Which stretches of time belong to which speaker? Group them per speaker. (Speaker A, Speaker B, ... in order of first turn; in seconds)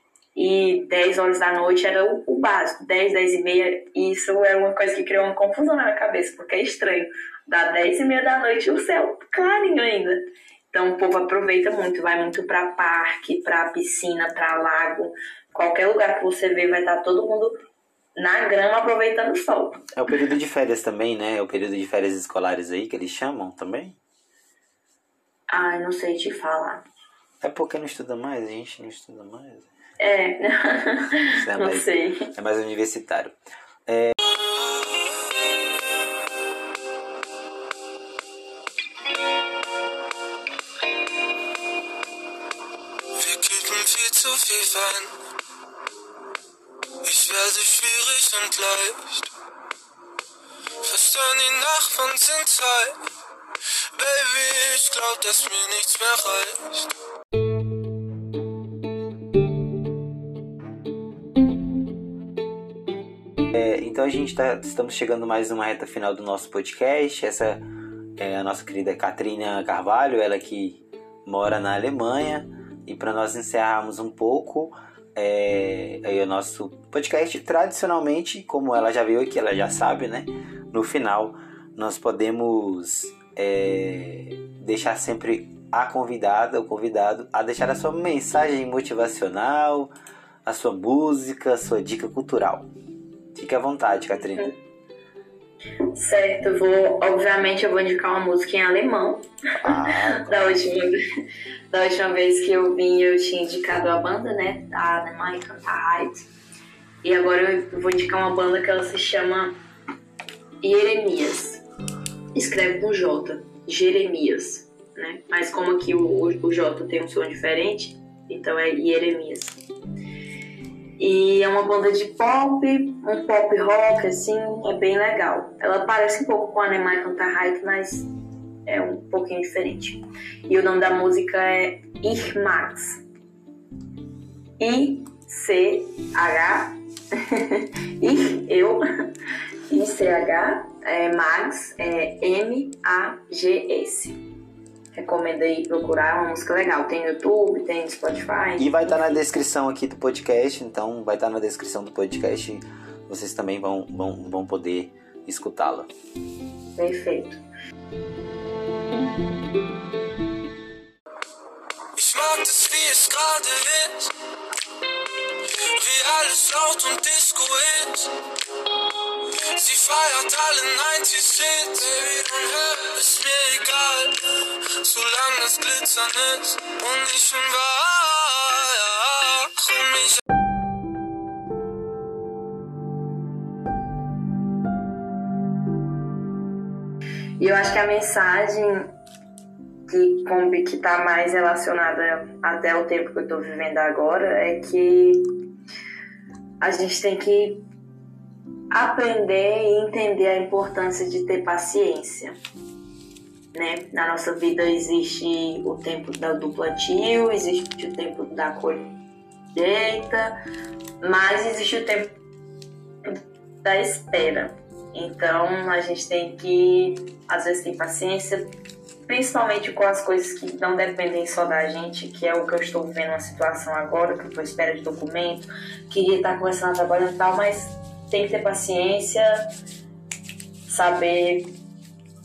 Speaker A: 0.3-17.6, 18.2-19.9, 25.5-26.9, 30.0-32.3, 95.9-101.0, 101.7-106.3, 107.0-109.6, 110.6-111.6, 112.3-119.6, 121.0-128.1, 128.7-133.0, 134.6-138.8, 139.7-144.2, 144.9-149.2, 156.7-157.4, 187.4-188.9, 189.9-195.3, 196.6-197.6, 198.7-202.4, 203.5-208.9, 209.5-210.4, 211.0-212.2, 213.1-218.5, 219.1-229.5, 230.7-231.5
Speaker B: 19.9-24.0, 27.4-29.7, 31.2-34.2, 63.5-67.6, 68.2-89.9, 90.5-92.7, 93.3-94.5, 99.6-100.6, 148.6-155.9
Speaker C: 34.3-35.1, 43.2-45.2, 47.0-49.3, 50.8-53.0, 53.9-56.9, 161.9-164.1, 165.4-168.1, 169.2-180.2